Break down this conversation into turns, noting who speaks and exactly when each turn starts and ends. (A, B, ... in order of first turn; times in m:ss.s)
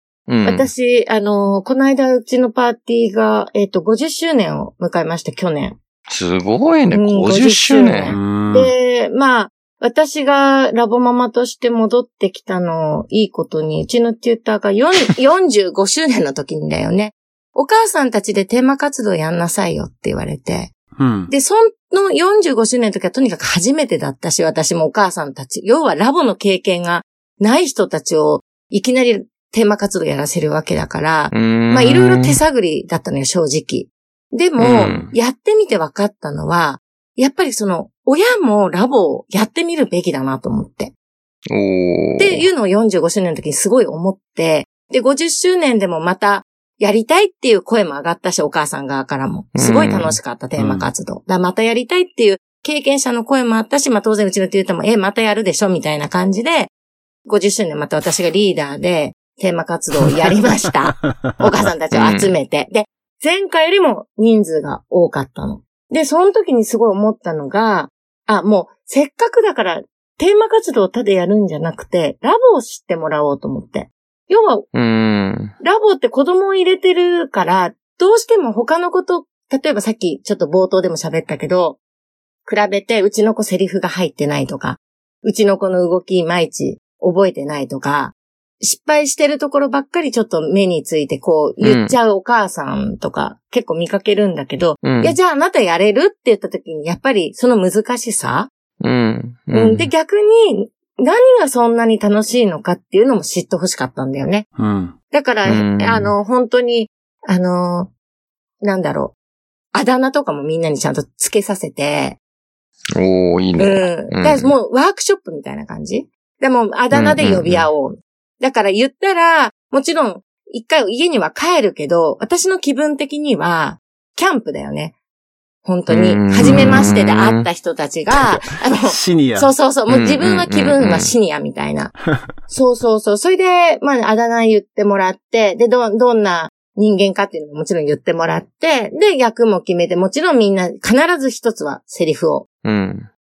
0:00.3-0:00.7 A
0:00.4-0:05.8 B
0:06.1-0:08.2 A
0:06.9-0:20.7 B
0:08.1-0:08.7 C
0:21.0-0:21.3 C
0:21.3-0:40.9 B
0:31.3-0:32.4 A
0:34.6-0:35.1 A
0:41.5-0:42.5 A
0:42.2-0:56.7 B
0:49.6-0:50.2 A
0:50.6-0:50.9 C
0:57.3-1:14.6 B
1:01.0-1:01.5 C
1:01.9-1:02.3 A
1:14.7-1:15.5 A
1:15.6-1:21.8 B
1:22.5-1:38.5 B
1:31.6-1:32.0 A
1:34.8-1:35.2 A
1:38.8-1:39.9 A
1:39.5-1:44.5 B
1:44.6-1:45.0 C
1:45.1-1:47.9 B
1:45.5-1:46.1 A
1:48.6-1:49.2 B
1:49.7-1:52.2 B
1:53.0-1:54.6 A
1:53.6-2:05.0 B
1:56.9-1:57.7 A
2:05.6-2:11.9 B
2:05.9-2:07.5 A
2:06.4-2:07.0 C
2:08.1-2:09.6 C
2:09.9-2:11.1 A
2:12.1-2:12.3 C
2:12.5-2:22.5 B
2:22.6-2:23.1 A